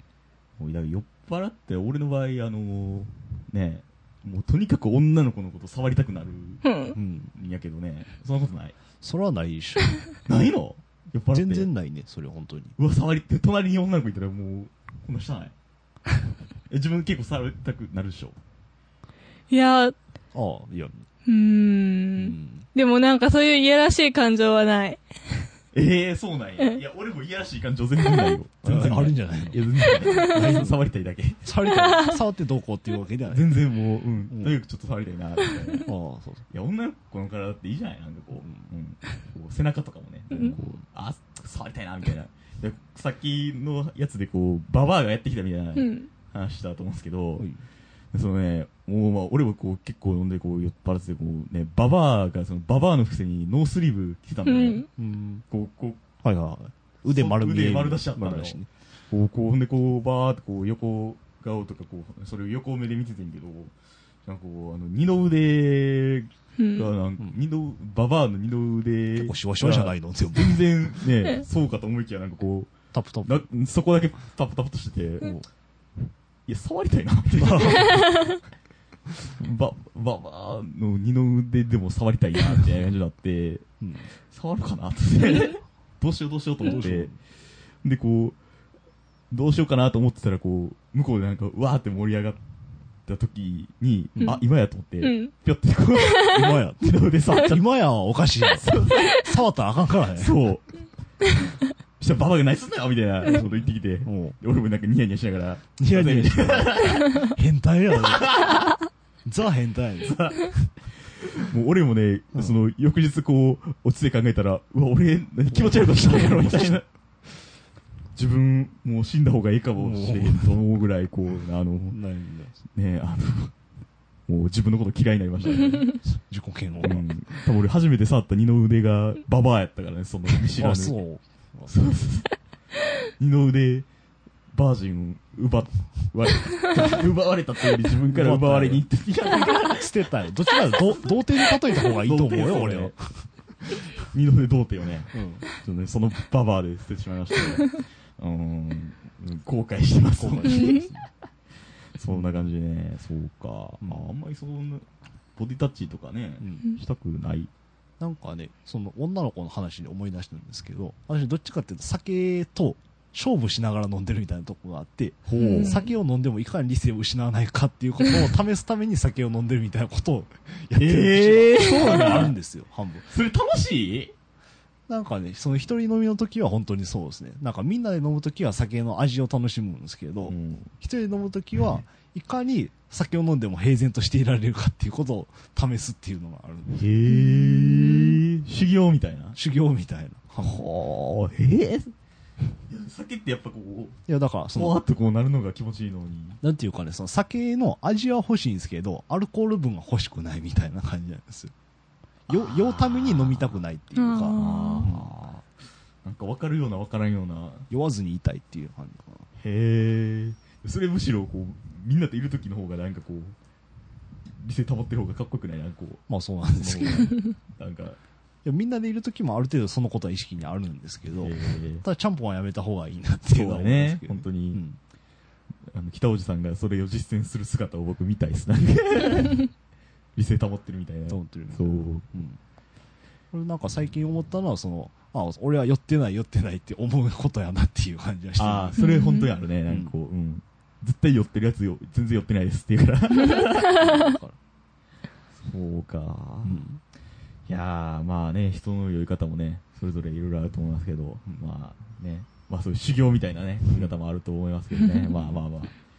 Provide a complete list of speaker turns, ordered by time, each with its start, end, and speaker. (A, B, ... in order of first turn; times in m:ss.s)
0:00.6-0:06.7 A
0:06.7-0:07.0 B
0:06.9-0:07.3 C
0:07.3-0:08.8 A
0:09.0-0:10.0 C
0:10.3-0:11.7 A
0:11.3-0:12.8 C
0:12.8-0:15.5 A
0:16.7-0:18.4 A
0:19.5-0:20.0 B
0:20.3-0:21.1 C
0:21.2-0:25.0 B
0:22.2-0:22.7 C
0:25.7-0:31.5 A
0:28.6-0:29.7 C
0:30.2-0:30.6 B
0:30.2-0:30.8 C
0:31.4-0:33.6 C
0:31.7-0:32.2 B
0:33.3-0:35.9 A
0:34.3-0:34.6 C
0:35.8-0:36.4 C
0:36.5-0:47.5 A
0:38.4-0:38.7 C
0:40.3-0:40.8 C
0:45.8-0:46.1 B
0:47.4-0:47.6 C
0:48.1-0:54.9 A
0:54.5-0:54.9 B
0:55.0-0:55.4 C
0:55.5-0:56.0 A
0:56.2-0:58.7 C
0:57.1-1:03.7 A
1:04.2-1:12.7 A
1:06.6-1:06.9 B
1:09.2-1:10.7 C
1:12.9-1:13.4 C
1:13.2-1:15.4 A
1:15.2-1:15.5 C
1:16.5-1:18.2 A
1:17.4-1:18.2 C
1:19.4-1:23.6 A
1:23.8-1:24.1 C
1:24.3-1:27.1 A
1:26.6-1:27.2 C
1:27.8-1:28.4 A
1:29.3-1:32.4 A
1:33.1-1:37.6 A
1:34.2-1:34.4 C
1:35.0-1:35.3 B
1:36.2-1:36.4 B
1:36.3-1:40.4 C
1:38.5-1:39.3 A
1:40.2-1:40.7 A
1:42.0-1:47.4 A
1:43.2-1:44.4 C
1:45.8-1:48.3 C
1:47.9-1:48.8 A
1:49.2-1:50.3 C
1:50.0-1:56.8 A
1:55.5-1:56.8 C
1:58.2-2:02.0 A
1:59.8-2:00.6 C
2:01.9-2:02.6 C
2:02.7-2:03.6 A
2:04.3-2:06.0 A
2:06.0-2:07.1 C
2:06.8-2:11.0 A
2:10.6-2:11.9 C
2:11.7-2:12.3 A
2:13.0-2:13.9 A
2:14.5-2:20.0 A
2:18.1-2:18.9 C
2:19.6-2:23.3 C
2:20.7-2:21.0 A
2:21.7-2:22.9 A
2:24.1-2:30.9 A
2:25.1-2:25.5 C
2:30.2-2:31.1 C
2:32.0-2:34.8 A
2:32.1-2:32.4 C
2:33.8-2:34.1 C
2:35.4-2:37.5 A
2:38.0-2:53.1 C
2:45.3-2:45.8 A
2:45.4-2:45.9 B
2:50.8-2:52.4 A
2:53.0-2:54.1 A
2:54.9-3:06.9 C
3:00.2-3:00.7 A
3:06.7-3:09.4 A
3:07.3-3:08.0 B
3:09.3-3:10.6 C
3:10.4-3:11.9 A
3:12.7-3:14.0 A
3:14.1-3:14.8 C
3:14.5-3:16.4 A
3:16.4-3:21.5 C
3:22.3-3:25.4 C
3:22.3-3:23.6 A
3:24.0-3:25.0 B
3:24.3-3:25.3 A
3:26.0-3:27.7 A
3:27.7-3:29.3 C
3:29.4-3:33.4 A
3:34.4-3:38.0 A
3:36.1-3:37.2 C
3:38.4-3:44.8 C
3:41.2-3:41.8 A
3:43.3-3:44.6 A
3:45.7-3:49.5 A
3:50.2-3:52.1 A
3:51.1-3:52.4 C
3:53.3-3:58.8 C
3:58.4-4:04.1 A
3:58.8-3:59.3 B
3:59.7-4:00.0 C
4:03.8-4:04.4 C
4:05.4-4:06.7 A
4:06.4-4:06.8 C
4:07.5-4:15.8 A